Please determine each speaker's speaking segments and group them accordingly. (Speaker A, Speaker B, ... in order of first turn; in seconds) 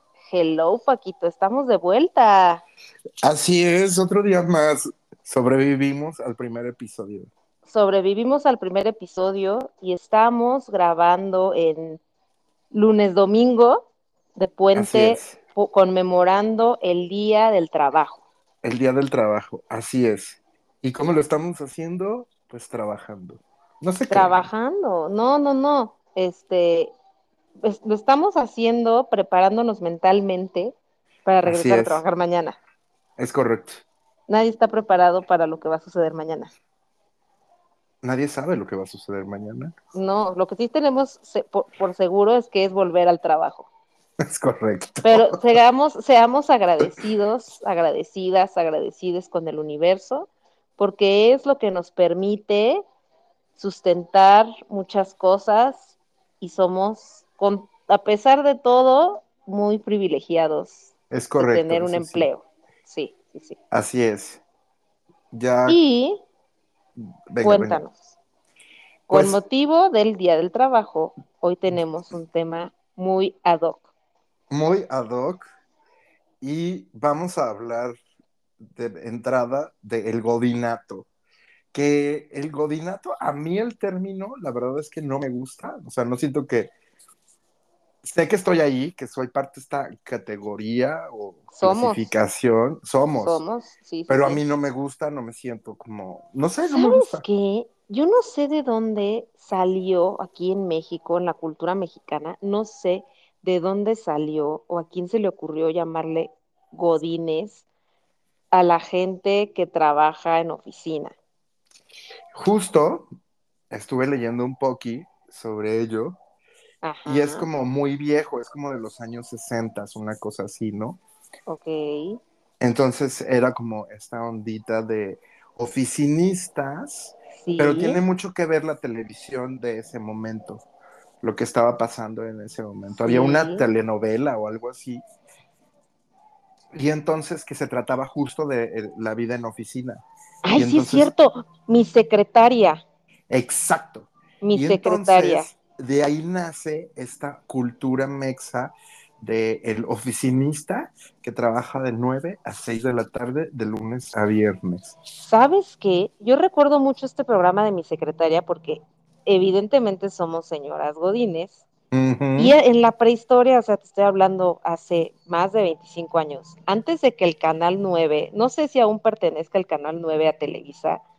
Speaker A: 0.3-2.6, 7.7-12.0, 12.7-18.2, 24.1-26.9, 27.6-30.7, 31.2-32.6, 34.3-36.5, 39.9-43.7, 45.0-52.8, 53.6-55.9, 56.4-60.9, 61.4-63.6, 65.7-66.2, 67.4-68.0, 69.1-73.9, 91.5-92.1, 93.2-94.4, 96.7-107.6, 108.5-111.1, 116.8-117.5, 121.5-122.2, 127.4-128.0, 133.1-133.6, 140.4-142.8, 144.4-145.5, 155.3-161.6, 162.4-171.0
Speaker B: 3.2-7.3, 14.7-15.4, 18.6-24.4, 31.4-32.0, 33.2-33.8, 38.0-39.7, 44.2-45.4, 61.1-62.3, 63.7-64.4, 65.3-65.8, 67.3-67.8, 69.1-69.4, 74.5-75.4, 76.4-78.0, 78.6-81.1, 81.7-86.7, 88.0-93.4, 94.1-97.2, 112.3-113.1, 113.7-116.2, 117.0-121.0, 122.6-130.6, 131.2-135.0, 136.7-140.0, 140.5-141.1, 143.3-154.9, 161.9-162.6